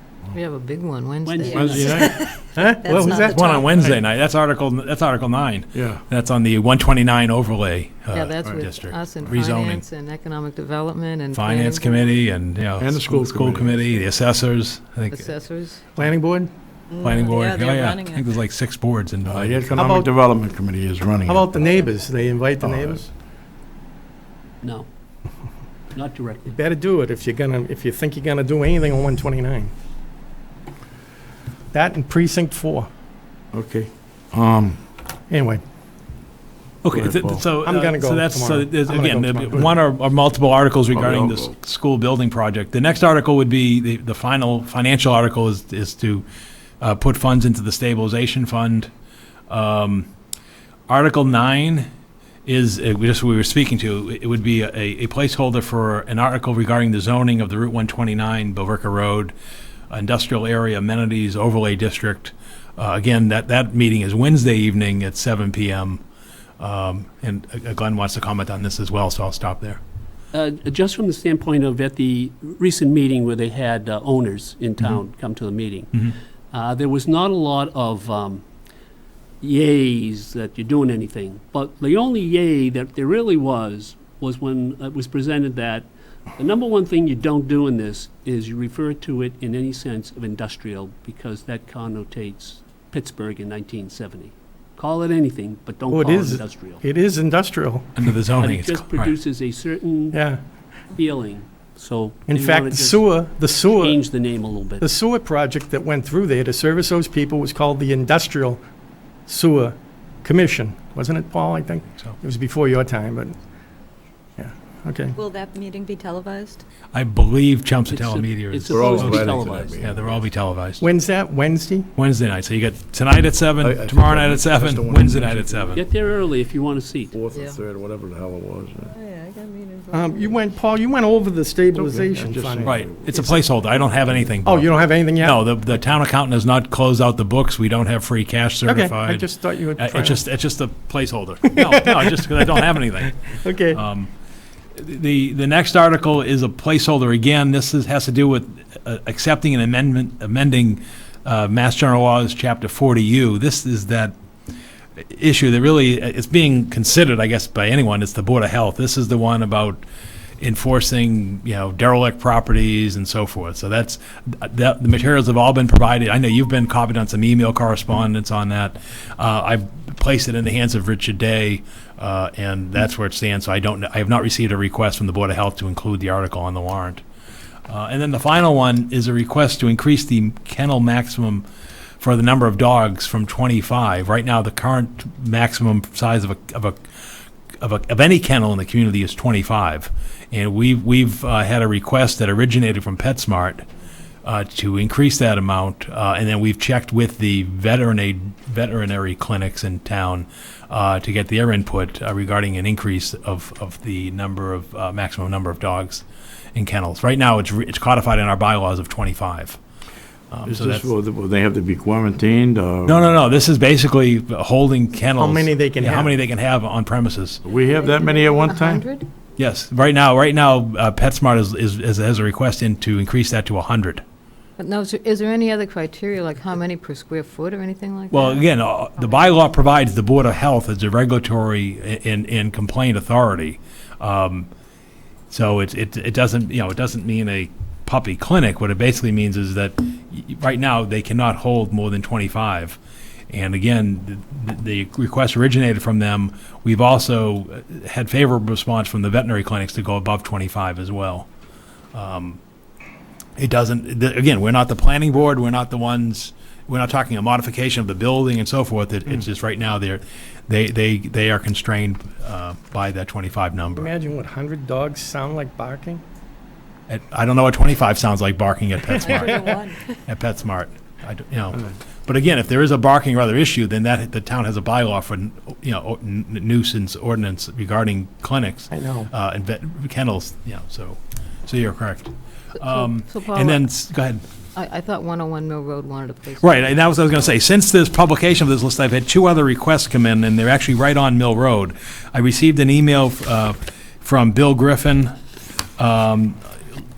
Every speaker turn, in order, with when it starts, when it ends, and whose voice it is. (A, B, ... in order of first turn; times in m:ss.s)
0:00.3-0:01.9 A
0:01.2-0:02.1 B
0:01.5-0:03.8 C
0:01.5-0:02.2 D
0:02.6-0:03.4 E
0:03.2-0:09.8 F
0:05.7-0:06.0 D
0:08.1-0:12.2 A
0:11.3-0:15.3 F
0:12.8-0:13.9 D
0:15.1-0:15.8 A
0:16.0-0:16.5 E
0:16.9-0:18.3 C
0:17.0-0:19.7 F
0:19.2-0:21.8 D
0:19.7-0:20.1 E
0:21.2-0:23.1 E
0:22.6-0:23.0 D
0:24.6-0:24.9 B
0:25.9-0:26.5 B
0:26.5-0:29.7 E
0:31.7-0:32.9 E
0:33.5-0:34.8 D
0:35.3-0:35.6 E
0:36.8-0:46.2 F
0:36.9-0:37.4 D
0:37.6-0:39.7 E
0:40.9-0:41.5 D
0:46.8-0:48.9 F
0:49.5-0:50.1 F
0:50.9-0:51.9 F
0:52.5-0:59.4 F
0:59.9-1:06.0 F
1:06.6-1:09.8 F
1:10.3-1:18.4 B
1:19.4-1:36.8 B
1:35.9-1:37.9 E
1:38.0-1:39.1 F
1:38.4-1:40.2 B
1:40.1-1:40.4 E
1:40.9-1:44.8 B
1:42.3-1:44.0 E
1:44.8-1:48.6 E
1:49.3-1:53.4 E
1:54.4-1:55.2 E
1:55.2-1:56.6 C
1:56.9-2:00.9 F
1:57.9-2:00.0 B
1:58.7-2:00.2 D
2:00.8-2:01.9 E
2:02.0-2:05.8 F
2:03.6-2:05.9 D
2:05.7-2:07.2 B
2:07.1-2:08.9 D
2:08.9-2:10.4 C
2:09.9-2:13.4 E
2:11.8-2:13.1 D
2:12.6-2:24.1 F
2:13.7-2:14.3 D
2:14.4-2:15.5 E
2:18.6-2:20.2 E
2:23.3-2:23.8 E
2:24.8-2:34.2 F
2:35.0-2:39.8 F
2:40.4-2:57.0 F
2:57.7-3:01.4 F
3:02.0-3:06.8 F
3:07.6-3:13.6 F
3:14.2-3:26.0 F
3:26.6-3:29.6 F
3:30.3-3:30.9 F
3:30.5-3:33.1 D
3:32.9-3:37.4 F
3:35.2-3:36.2 E
3:37.4-3:38.9 D
3:37.8-3:39.1 A
3:39.4-3:44.0 F
3:44.6-3:48.5 A
3:48.1-3:54.5 F
3:49.0-3:49.3 A
3:55.3-4:02.8 F
4:03.3-4:11.3 F
4:11.9-4:12.4 F
4:13.4-4:23.9 F
4:23.8-4:26.0 E
4:26.9-4:29.5 F
4:29.0-4:29.9 C
4:30.1-4:44.2 F
4:38.7-4:39.1 E
4:42.6-4:43.7 A
4:44.6-4:47.4 A
4:46.4-4:55.1 F
4:55.8-4:56.4 F